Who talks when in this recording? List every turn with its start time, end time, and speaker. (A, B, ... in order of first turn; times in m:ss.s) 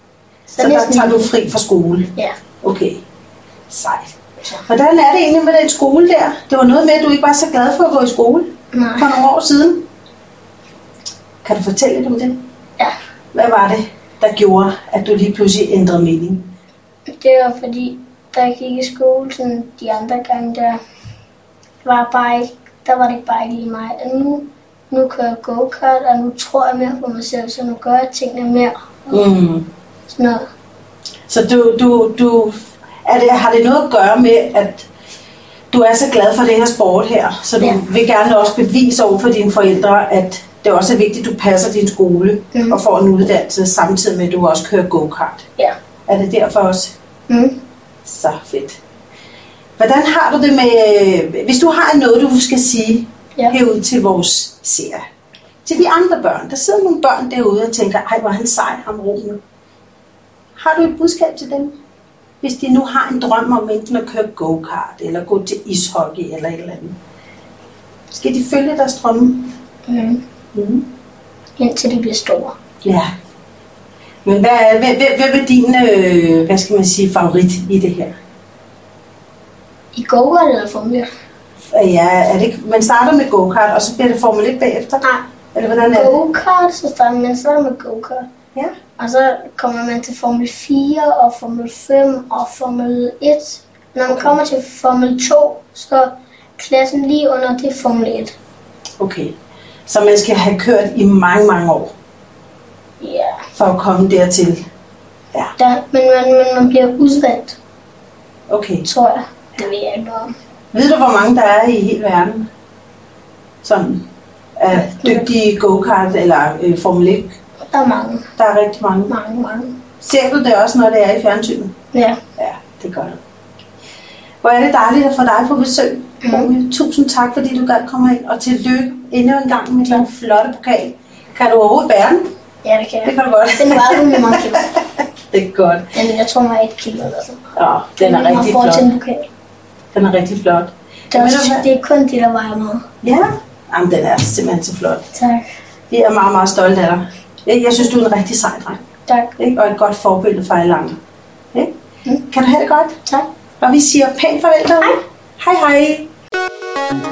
0:00.5-0:01.3 A
0:00.5-0:03.0 B
0:03.7-0:09.9 B
0:08.7-0:09.2 A
0:11.4-0:12.4 B
0:13.3-0:16.5 B
0:17.1-0:20.8 A
0:21.8-0:29.3 A
0:29.1-0:29.7 B
0:30.1-0:30.4 A
0:31.3-0:34.9 B
0:35.7-0:45.4 B
0:42.5-0:42.8 A
0:46.1-0:46.9 B
0:47.3-0:47.6 A
0:48.0-0:48.8 B
0:49.8-0:55.0 B
0:55.6-0:59.4 B
1:00.6-1:01.8 B
1:02.4-1:07.0 B
1:08.1-1:09.5 B
1:09.9-1:10.2 A
1:10.5-1:10.8 B
1:11.6-1:12.6 A
1:12.8-1:13.1 B
1:14.2-1:18.1 B
1:19.9-1:21.1 A
1:21.7-1:25.0 B
1:25.0-1:25.2 A
1:25.5-1:26.2 B
1:25.9-1:28.3 A
1:29.0-1:38.3 A
1:34.1-1:34.4 B
1:39.0-1:39.3 B
1:39.9-1:41.9 B
1:43.0-1:43.4 A
1:43.5-1:44.6 B
1:45.6-1:47.6 A
1:48.5-1:48.8 B
1:48.8-1:50.3 A
1:50.7-1:52.5 B
1:53.6-1:54.1 B
1:54.6-1:57.3 B
1:54.8-1:55.3 A
1:57.7-1:58.2 A
1:58.4-1:59.1 B
1:59.1-1:59.8 A
2:00.0-2:01.7 B
2:01.9-2:02.2 A
2:02.4-2:03.2 B
2:04.4-2:12.3 B
2:06.2-2:06.5 A
2:12.6-2:14.7 A
2:13.0-2:15.9 B
2:15.9-2:19.3 A
2:17.6-2:18.9 B
2:19.9-2:21.7 B
2:21.1-2:22.8 A
2:23.0-2:25.1 B
2:25.1-2:25.5 A
2:25.9-2:28.8 B
2:29.1-2:29.3 A
2:29.4-2:31.0 B
2:32.3-2:33.0 B
2:33.6-2:36.1 B